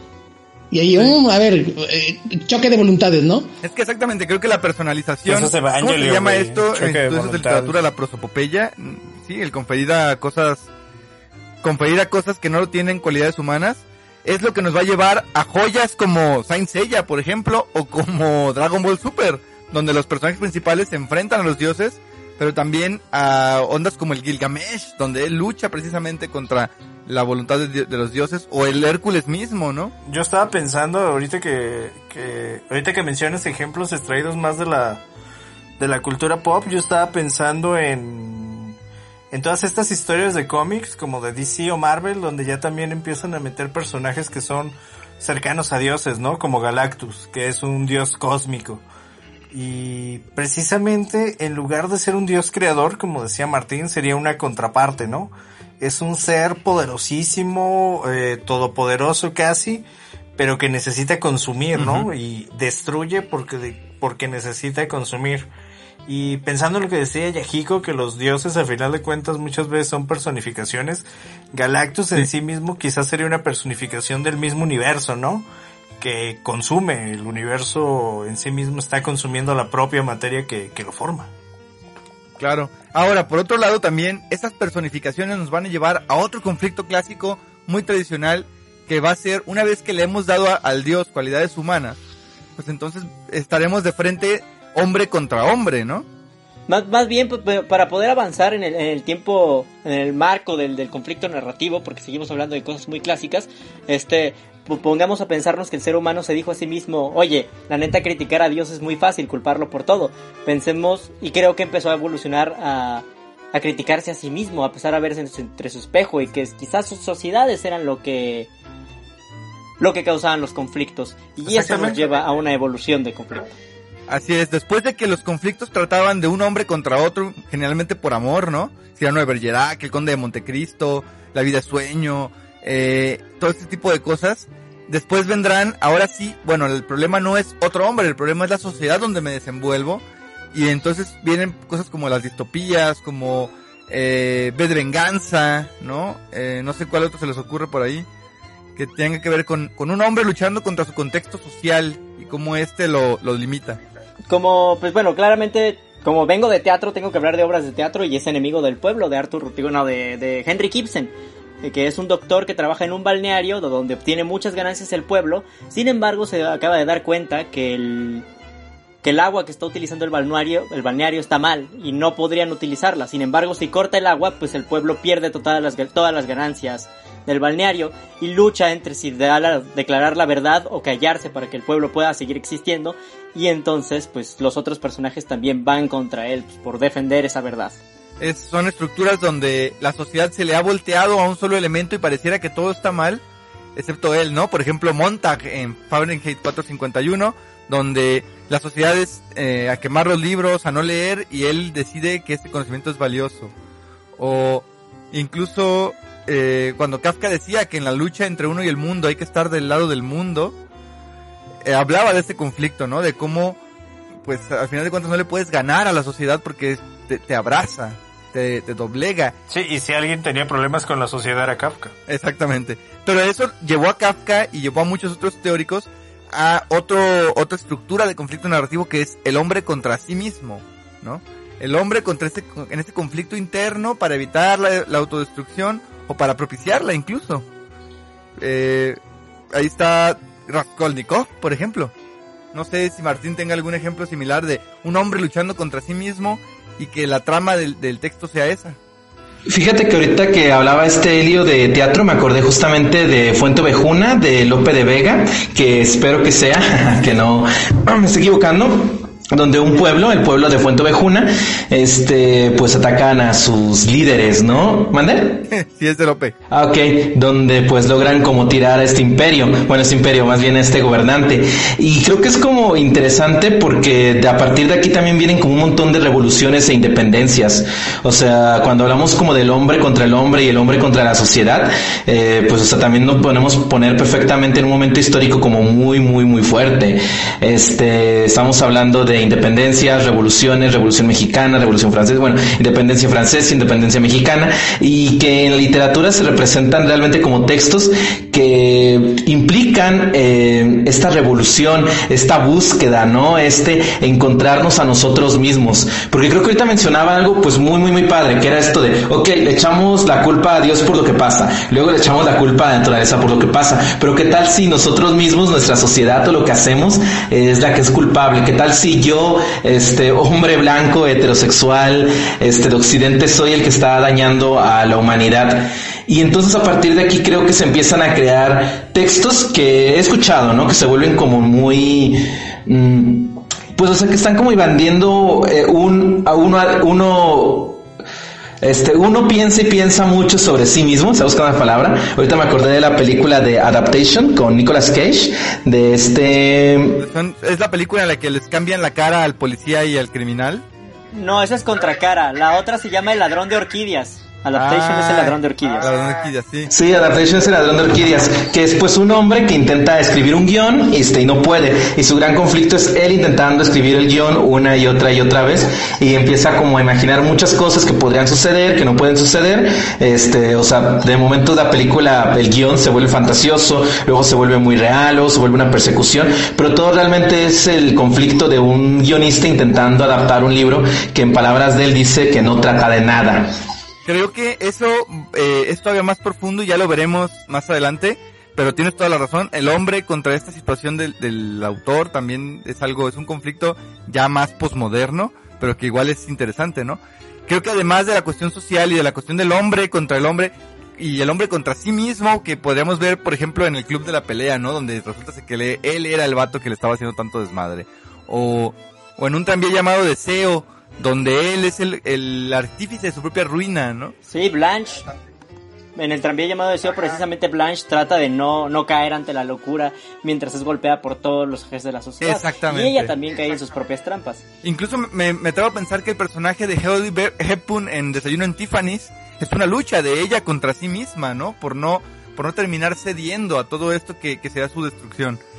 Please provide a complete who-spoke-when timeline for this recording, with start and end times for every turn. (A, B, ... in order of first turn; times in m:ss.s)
0:00.7-0:03.5 A
0:03.6-0:10.7 B
0:05.2-0:07.8 C
0:11.6-0:29.9 B
0:30.1-0:35.0 C
0:35.8-0:38.8 C
0:39.3-0:48.8 C
0:49.5-0:59.8 C
1:00.4-1:05.5 C
1:01.8-1:02.1 B
1:06.1-1:15.5 C
1:16.0-1:21.3 C
1:22.4-1:32.0 B
1:32.6-1:36.1 B
1:36.7-1:58.5 D
1:59.8-2:03.5 D
2:01.5-2:02.1 B
2:04.1-2:28.1 B
2:28.8-2:33.8 B
2:34.3-2:48.3 D
2:49.0-3:07.8 D
3:08.2-3:13.2 B
3:13.8-3:23.5 B
3:24.2-3:30.6 B
3:31.6-3:33.6 B
3:34.2-3:39.4 B
3:39.5-3:41.9 C
3:42.1-3:57.5 B
3:58.4-3:59.0 B
3:59.5-4:01.9 B
4:02.5-4:08.8 B
4:09.5-4:25.4 E
4:25.5-4:26.4 B
4:26.5-5:37.8 E
5:38.6-5:47.0 E
5:47.0-5:50.6 B
5:51.1-5:55.9 D
5:54.5-5:56.7 B
5:56.7-6:23.5 E
6:24.0-6:54.1 B
6:54.3-6:55.1 D
6:56.0-7:04.4 D
7:02.2-7:03.2 B
7:04.6-7:15.4 B